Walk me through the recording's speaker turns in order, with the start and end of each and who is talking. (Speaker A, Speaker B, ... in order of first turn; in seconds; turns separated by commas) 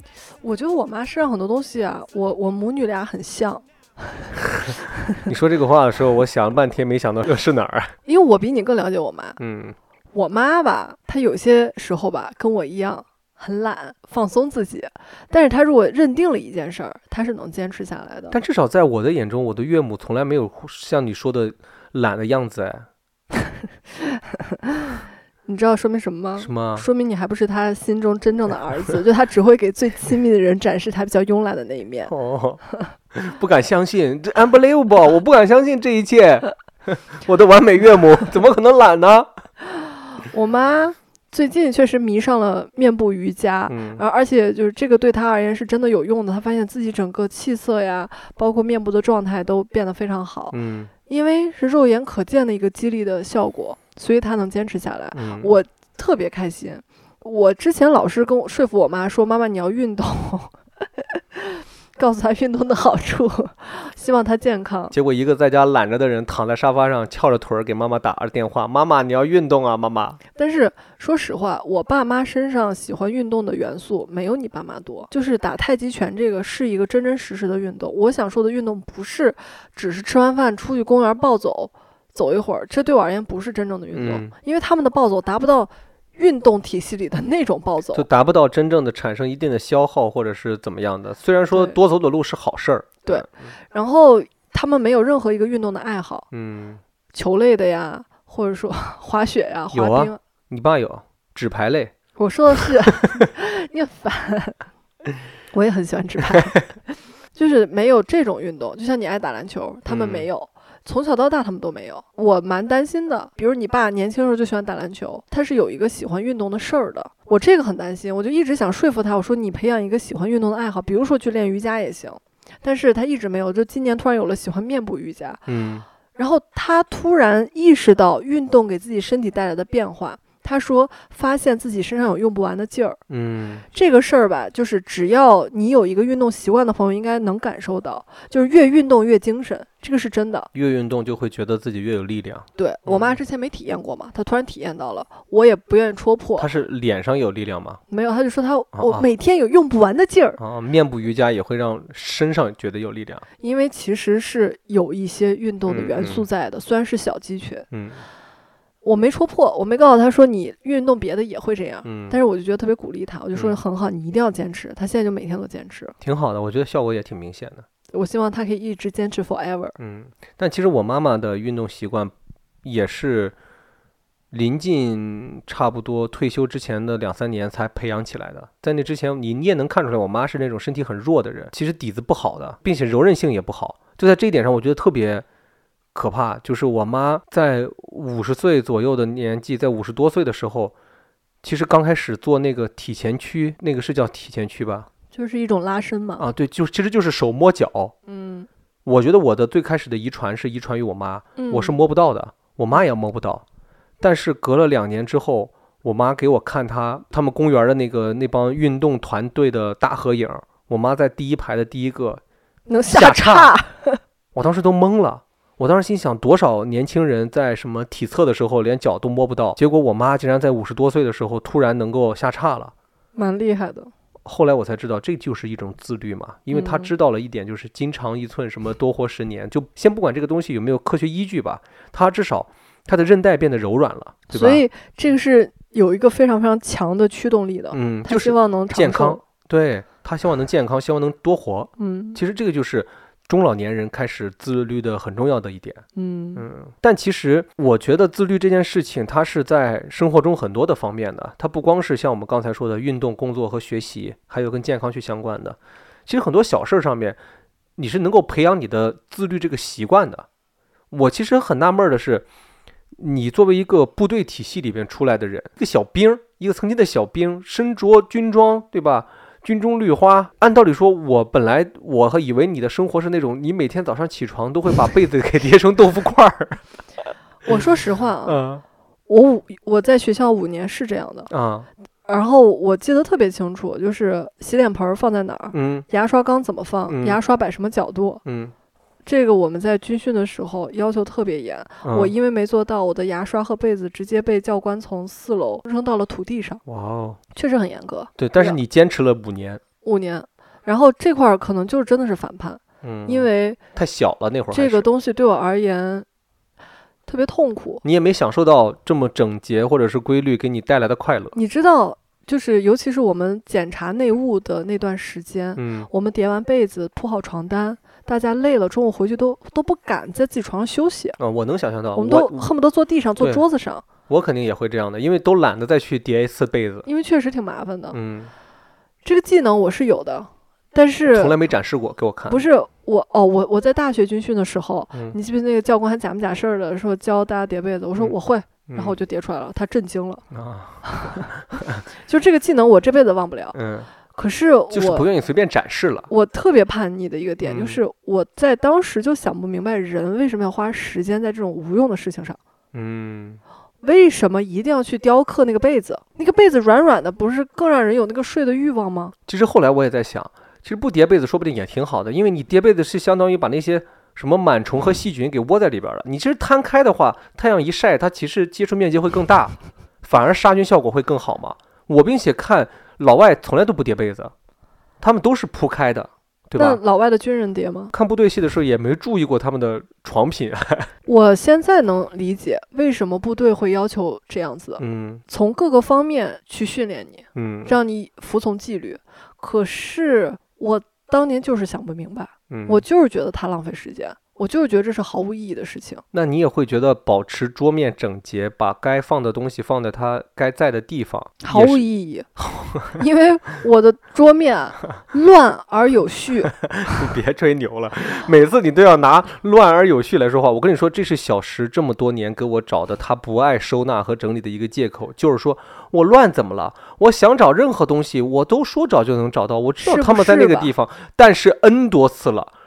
Speaker A: 0.4-3.6, Speaker B: 5.2-7.9, Speaker A: 8.1-9.4, Speaker B: 9.4-9.8, Speaker A: 10.1-18.4, Speaker B: 18.3-22.9, Speaker A: 24.0-32.1, Speaker B: 26.4-26.9, Speaker B: 32.1-32.6, Speaker B: 33.1-39.3, Speaker A: 40.3-64.9, Speaker B: 43.7-44.0, Speaker B: 50.5-50.9, Speaker B: 55.1-55.6, Speaker B: 64.9-70.2, Speaker A: 70.3-88.1, Speaker B: 83.9-84.3, Speaker B: 87.9-93.5, Speaker A: 93.0-96.3, Speaker B: 96.3-96.8, Speaker A: 97.1-100.2, Speaker B: 99.7-101.9, Speaker A: 102.2-104.6, Speaker A: 105.5-125.4, Speaker B: 109.9-110.3, Speaker B: 125.5-125.8, Speaker A: 126.2-133.0, Speaker B: 133.1-133.6, Speaker A: 133.7-140.5, Speaker B: 140.5-143.2, Speaker A: 142.6-146.5, Speaker B: 146.4-147.8, Speaker A: 147.9-150.4, Speaker B: 148.7-149.1, Speaker B: 150.4-153.2, Speaker A: 153.4-157.7, Speaker B: 155.7-156.2, Speaker B: 157.7-158.0, Speaker A: 158.8-165.9, Speaker B: 161.8-162.2, Speaker B: 166.0-167.7, Speaker A: 167.9-169.7, Speaker B: 169.8-173.3, Speaker B: 174.3-185.2, Speaker B: 185.9-190.7, Speaker B: 191.4-194.9, Speaker A: 195.1-196.2, Speaker B: 196.2-197.9, Speaker A: 198.1-198.5, Speaker B: 198.8-203.4, Speaker A: 201.3-201.8, Speaker B: 204.0-212.2, Speaker A: 212.7-214.0, Speaker B: 212.9-213.5, Speaker B: 214.3-222.7, Speaker A: 223.2-223.9, Speaker B: 224.2-234.6, Speaker A: 226.5-226.9, Speaker A: 234.3-239.2, Speaker B: 237.7-245.8, Speaker A: 241.8-242.2, Speaker A: 245.9-246.4, Speaker B: 246.3-257.2, Speaker B: 257.8-260.2, Speaker B: 260.9-262.2, Speaker B: 263.0-276.6, Speaker A: 277.4-278.4, Speaker B: 278.2-278.6, Speaker A: 279.1-281.3, Speaker B: 281.3-281.7, Speaker A: 282.1-288.2, Speaker B: 285.5-285.9, Speaker B: 286.9-287.2, Speaker B: 288.2-288.5, Speaker A: 289.1-296.6, Speaker B: 291.8-292.1, Speaker B: 296.6-297.2, Speaker A: 297.3-298.6, Speaker B: 298.2-299.6, Speaker A: 299.8-303.6, Speaker B: 302.8-304.9, Speaker A: 304.5-306.1, Speaker A: 307.1-307.8, Speaker B: 307.8-311.4, Speaker A: 311.3-321.2, Speaker B: 315.6-315.9, Speaker B: 321.2-322.5, Speaker A: 321.9-323.8, Speaker B: 324.1-326.9, Speaker A: 326.9-328.0, Speaker B: 327.9-328.3, Speaker A: 329.0-331.4, Speaker B: 331.1-332.4, Speaker A: 332.3-340.2, Speaker B: 338.7-338.9, Speaker B: 340.3-341.8, Speaker A: 340.8-341.3, Speaker A: 342.0-343.6, Speaker B: 343.5-343.9, Speaker A: 344.1-345.1, Speaker B: 344.7-346.1, Speaker A: 346.1-352.4, Speaker B: 347.4-347.8, Speaker B: 352.7-353.4, Speaker A: 353.8-359.1, Speaker B: 359.3-374.3, Speaker B: 375.0-376.8, Speaker A: 376.6-377.9, Speaker B: 377.9-380.9, Speaker A: 381.1-396.0, Speaker B: 384.8-385.2, Speaker B: 387.3-387.8, Speaker B: 392.5-392.8, Speaker B: 396.1-401.8, Speaker A: 401.4-402.3, Speaker B: 402.4-403.0, Speaker A: 402.9-406.5, Speaker B: 406.6-422.5, Speaker A: 419.8-420.7